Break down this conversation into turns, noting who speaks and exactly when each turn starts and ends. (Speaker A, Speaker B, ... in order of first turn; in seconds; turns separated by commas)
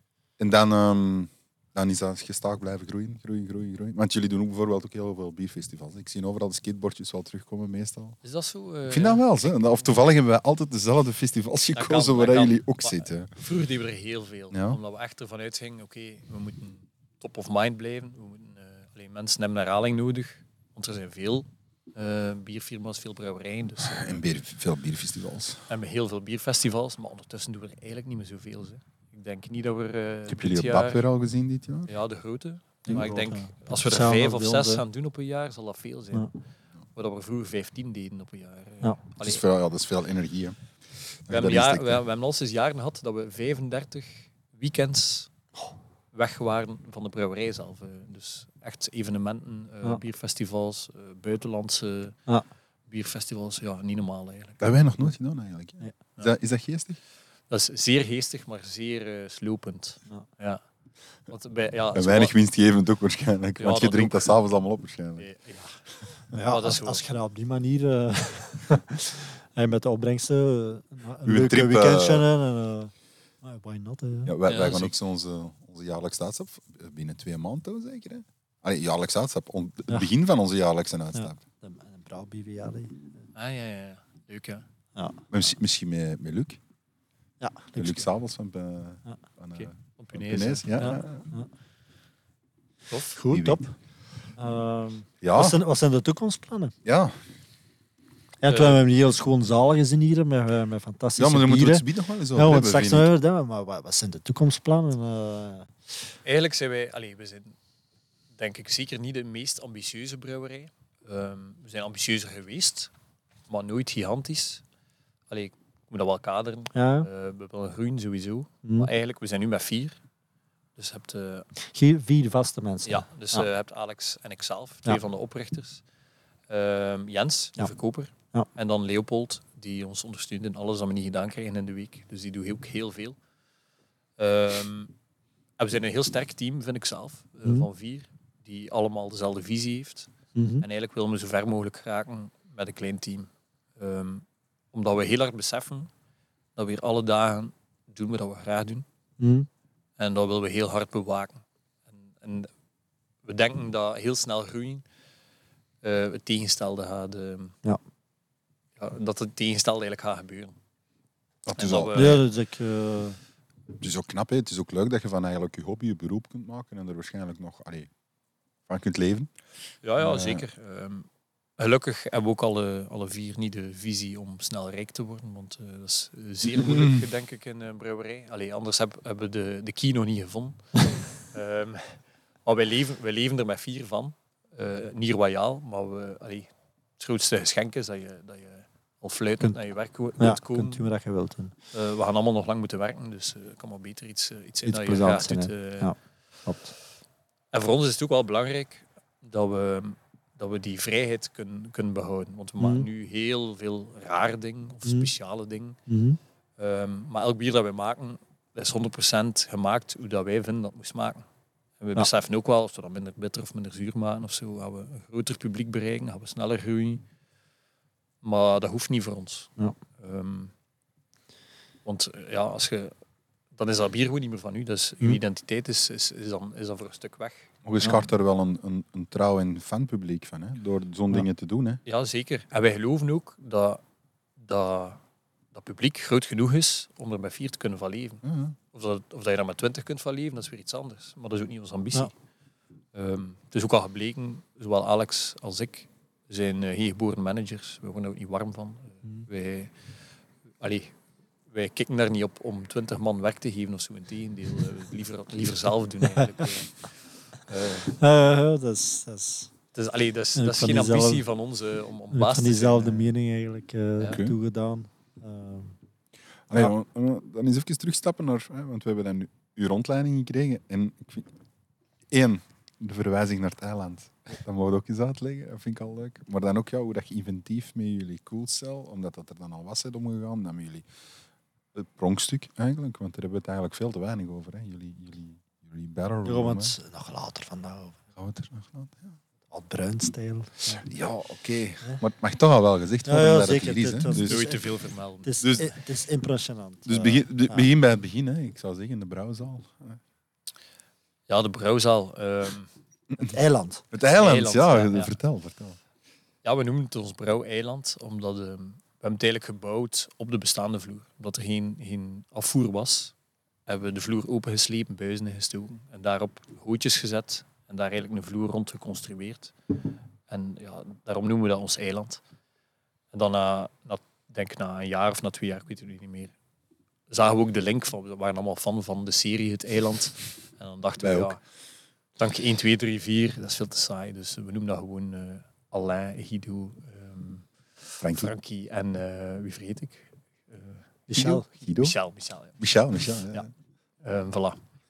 Speaker A: 0.4-8.2, Speaker B: 8.2-9.8, Speaker A: 8.9-13.3, Speaker B: 11.7-24.2, Speaker A: 14.5-14.8, Speaker A: 23.9-25.7, Speaker B: 25.7-31.0, Speaker A: 30.3-31.9, Speaker B: 31.9-36.3, Speaker C: 32.9-34.8, Speaker B: 37.0-39.4, Speaker A: 39.2-40.6, Speaker A: 41.3-42.0, Speaker B: 41.3-45.3, Speaker B: 46.1-52.2, Speaker B: 52.9-54.6, Speaker A: 54.6-57.0, Speaker B: 57.5-60.6, Speaker B: 61.3-62.3, Speaker A: 62.0-65.3, Speaker B: 63.6-64.3, Speaker B: 65.2-65.8, Speaker C: 66.3-74.3, Speaker B: 66.5-67.0, Speaker A: 71.2-72.3, Speaker A: 74.3-81.4, Speaker B: 74.5-74.9, Speaker C: 81.1-83.1, Speaker B: 83.3-84.6, Speaker C: 85.0-85.2, Speaker A: 85.3-86.6, Speaker C: 87.4-88.0, Speaker A: 87.8-91.3, Speaker B: 89.5-91.0, Speaker C: 90.8-91.5, Speaker B: 92.9-93.2, Speaker C: 93.2-93.7, Speaker A: 93.3-93.6, Speaker C: 94.4-96.8, Speaker A: 95.2-95.6, Speaker A: 96.8-97.2, Speaker C: 98.4-105.7, Speaker B: 98.5-98.8, Speaker A: 101.2-103.1, Speaker B: 106.2-107.6, Speaker B: 108.3-112.9, Speaker B: 113.5-114.6, Speaker B: 115.3-120.0, Speaker C: 116.7-117.1, Speaker C: 118.6-118.9, Speaker B: 120.8-121.5, Speaker C: 121.6-123.5, Speaker B: 122.8-125.8, Speaker B: 126.5-133.2, Speaker B: 134.2-134.9, Speaker B: 135.6-140.1, Speaker C: 140.3-140.7, Speaker B: 140.6-145.9, Speaker B: 146.6-148.9, Speaker C: 149.2-149.5, Speaker B: 150.0-152.5, Speaker B: 153.2-154.8, Speaker B: 155.8-157.6, Speaker B: 158.8-160.6, Speaker A: 161.5-162.2, Speaker B: 161.6-162.2, Speaker C: 161.9-163.2, Speaker A: 163.8-167.9, Speaker A: 168.7-169.3, Speaker B: 169.8-180.7, Speaker A: 170.0-170.4, Speaker A: 176.5-177.0, Speaker B: 181.2-190.8, Speaker C: 190.2-191.6, Speaker B: 191.7-195.9, Speaker C: 194.7-196.7, Speaker B: 197.5-205.8, Speaker C: 202.6-202.9, Speaker C: 204.8-205.1, Speaker C: 205.9-206.2, Speaker B: 206.6-211.2, Speaker B: 211.8-217.1, Speaker B: 218.2-220.5, Speaker B: 221.8-222.9, Speaker B: 223.6-227.5, Speaker A: 227.6-231.8, Speaker B: 231.8-233.8, Speaker B: 234.4-235.0, Speaker B: 235.5-242.1, Speaker A: 238.2-238.6, Speaker B: 242.9-249.7, Speaker B: 250.6-250.9, Speaker B: 251.5-256.9, Speaker C: 256.1-256.5, Speaker B: 257.5-257.9, Speaker C: 257.8-259.5, Speaker B: 259.7-263.1, Speaker C: 260.4-261.2, Speaker C: 262.1-265.8, Speaker A: 264.1-264.3, Speaker A: 266.5-271.3, Speaker A: 272.1-280.8, Speaker A: 281.8-286.8, Speaker C: 286.2-288.0, Speaker A: 288.2-289.2, Speaker C: 289.5-290.9, Speaker A: 290.8-294.5, Speaker C: 293.1-294.6, Speaker B: 294.1-295.4, Speaker C: 295.2-297.7, Speaker A: 295.4-295.7, Speaker A: 296.9-300.0, Speaker B: 301.3-302.7, Speaker C: 303.2-303.8, Speaker A: 303.9-305.8, Speaker B: 304.1-305.1, Speaker B: 306.4-313.1, Speaker B: 313.7-319.5, Speaker B: 320.3-322.2, Speaker B: 323.1-326.3, Speaker B: 327.1-331.4, Speaker A: 331.0-331.3, Speaker B: 332.2-340.9, Speaker A: 338.0-338.3, Speaker C: 341.1-341.4, Speaker A: 341.1-342.0, Speaker B: 341.6-342.6, Speaker A: 342.6-343.5, Speaker B: 344.0-344.6